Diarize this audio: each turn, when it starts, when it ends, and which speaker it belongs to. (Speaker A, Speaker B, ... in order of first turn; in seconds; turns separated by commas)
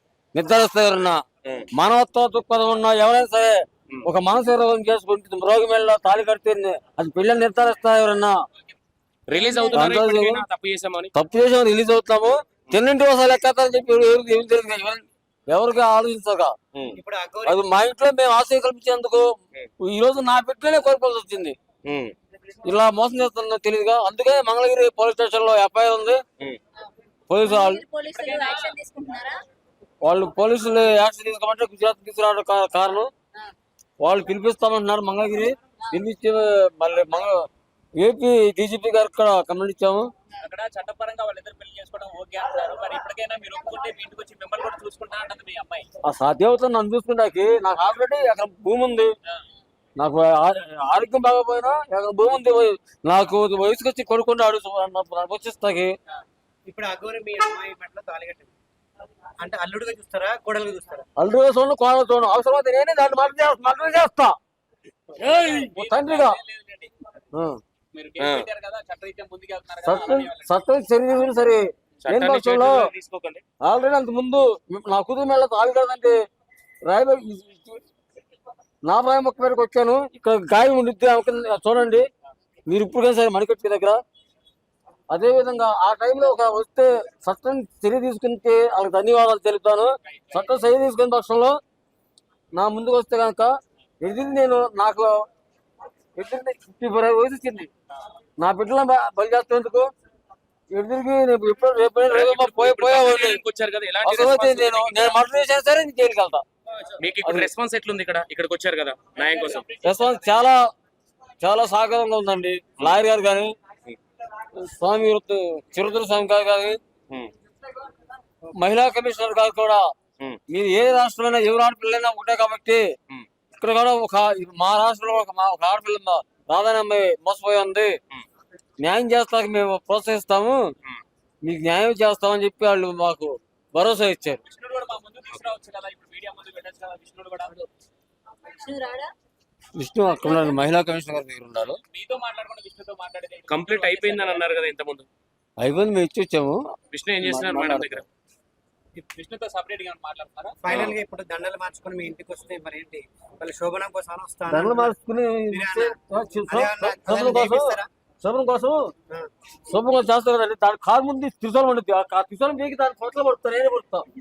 Speaker A: 0.3-1.2, Speaker A: 1.7-8.4, Speaker B: 9.3-11.1, Speaker C: 9.5-9.8, Speaker A: 9.7-10.4, Speaker A: 11.1-16.5, Speaker B: 16.8-17.0, Speaker D: 16.9-17.6, Speaker A: 17.4-19.2, Speaker A: 19.8-21.5, Speaker B: 21.9-22.1, Speaker A: 22.6-26.2, Speaker A: 27.3-27.8, Speaker C: 27.4-29.4, Speaker E: 28.1-28.7, Speaker A: 30.0-33.1, Speaker A: 34.0-37.5, Speaker A: 38.0-40.1, Speaker E: 40.4-45.9, Speaker A: 46.0-49.1, Speaker A: 50.0-55.9, Speaker D: 56.7-58.5, Speaker D: 59.4-61.1, Speaker A: 61.2-64.3, Speaker E: 65.2-66.9, Speaker A: 65.7-66.4, Speaker A: 67.3-67.6, Speaker E: 67.9-70.5, Speaker B: 68.2-68.5, Speaker A: 69.8-72.8, Speaker B: 72.0-73.4, Speaker A: 73.6-76.1, Speaker A: 76.9-77.8, Speaker A: 78.8-82.0, Speaker A: 82.7-84.0, Speaker A: 85.1-91.6, Speaker E: 90.1-90.3, Speaker A: 92.5-93.5, Speaker A: 94.0-95.1, Speaker A: 96.2-97.7, Speaker A: 98.4-99.9, Speaker A: 100.7-103.4, Speaker B: 102.0-105.2, Speaker A: 104.0-106.4, Speaker B: 107.0-109.7, Speaker A: 107.2-107.5, Speaker E: 109.1-110.2, Speaker A: 109.8-110.6, Speaker A: 111.4-113.5, Speaker A: 114.5-116.8, Speaker A: 118.6-119.8, Speaker A: 120.5-122.8, Speaker A: 123.6-128.0, Speaker A: 128.8-130.6, Speaker A: 131.4-134.4, Speaker E: 134.5-137.7, Speaker C: 138.6-139.1, Speaker A: 139.8-141.8, Speaker E: 141.8-144.5, Speaker B: 143.5-145.1, Speaker A: 145.6-146.6, Speaker B: 146.9-148.1, Speaker A: 147.2-148.0, Speaker E: 149.1-150.6, Speaker D: 150.6-154.9, Speaker B: 150.7-151.0, Speaker A: 154.5-158.9, Speaker D: 155.5-156.0, Speaker D: 156.5-157.9, Speaker A: 159.7-164.0